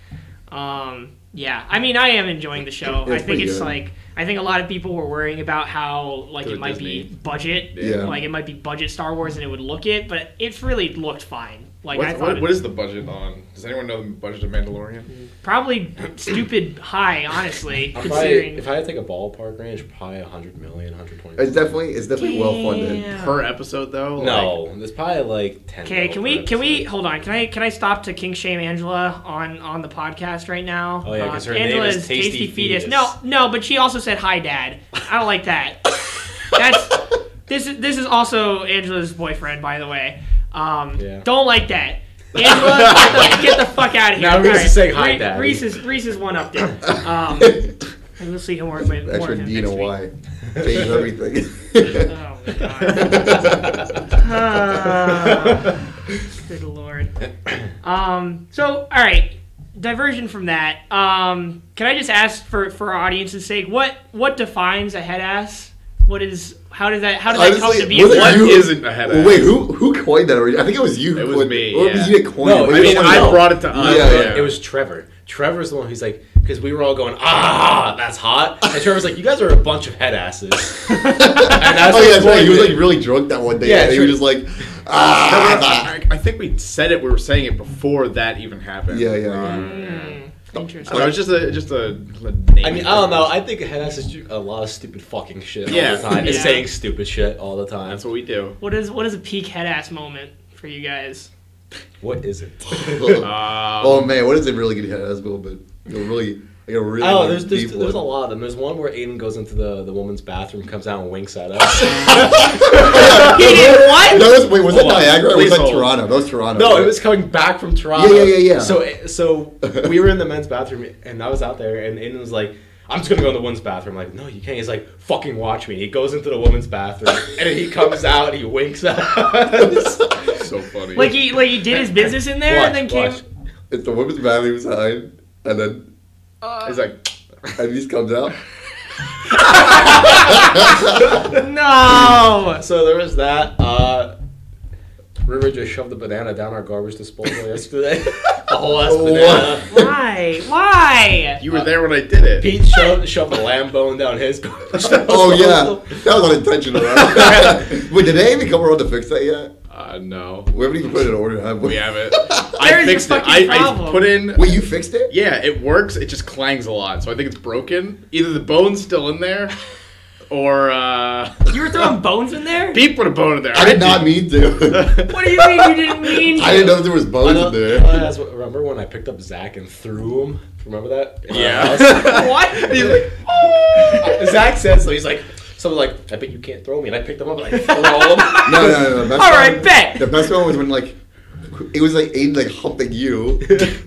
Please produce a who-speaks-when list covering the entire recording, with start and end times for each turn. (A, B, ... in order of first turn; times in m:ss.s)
0:00.5-0:12.6 A
0:03.0-0:03.7 B
0:06.4-0:07.1 C
0:07.7-0:08.2 C
0:07.8-0:08.2 B
0:11.9-0:15.1 C
0:15.1-0:18.6 A
0:17.9-0:21.7 D
0:21.4-0:23.0 B
0:22.2-0:23.4 A
0:23.1-0:24.6 C
0:24.2-0:26.8 D
0:25.8-0:35.9 A
0:31.0-0:33.1 D
0:36.4-0:49.9 A
0:41.0-0:41.2 D
0:42.6-0:43.4 C
0:44.1-0:45.7 D
0:47.4-0:47.7 B
0:48.8-0:52.1 B
0:52.0-0:53.5 A
0:52.9-0:53.8 B
0:54.1-0:55.8 A
0:56.3-0:57.1 A
0:57.8-1:08.7 A
1:07.3-1:14.5 B
1:07.9-1:09.5 C
1:11.1-1:14.5 C
1:12.4-1:22.9 D
1:21.2-1:25.9 B
1:21.3-1:21.6 A
1:23.6-1:24.2 D
1:25.2-1:30.2 C
1:28.9-1:29.7 B
1:29.4-1:31.2 A
1:30.6-1:31.2 B
1:30.8-1:33.3 C
1:32.6-1:38.0 D
1:35.6-1:36.6 C
1:35.7-1:36.1 B
1:36.1-1:36.6 A
1:37.8-1:38.6 C
1:38.6-1:41.3 A
1:42.0-1:43.2 D
1:42.9-1:48.1 B
1:43.2-1:44.1 C
1:47.0-1:53.7 D
1:51.8-1:57.0 B
1:52.7-1:54.3 A
1:54.6-1:55.2 D
1:55.2-1:55.9 C
1:56.5-2:10.2 D
1:57.9-1:58.8 B
2:09.6-2:10.3 B
2:10.2-2:11.2 C
2:10.9-2:13.2 A
2:12.5-2:13.2 D
2:13.7-2:15.9 B
2:16.6-2:17.5 C
2:17.5-2:18.3 B
2:19.5-2:22.6 A
2:20.1-2:20.8 B
2:22.5-2:24.1 D
2:25.2-2:29.8 D
2:28.8-2:29.6 B
2:29.5-2:31.4 A
2:31.4-2:32.5 C
2:32.4-2:36.0 D
2:34.7-2:39.5 B
2:36.9-2:37.6 D
2:39.7-2:40.5 C
2:40.5-2:42.7 B
2:41.6-2:44.5 C
2:42.6-2:44.1 A
2:44.3-2:45.1 B
2:45.1-2:49.5 C
2:50.3-2:51.5 C
2:51.5-2:52.8 A
2:52.7-2:54.1 C
2:53.5-2:54.9 B
2:54.7-2:55.1 C
2:55.1-2:56.8 A
2:56.3-2:58.1 B
2:57.2-3:03.0 D
3:01.3-3:04.2 C
3:01.9-3:04.0 A
3:03.8-3:08.9 D
3:07.5-3:10.2 A
3:08.4-3:11.0 B
3:11.5-3:13.7 B
3:13.5-3:13.7 D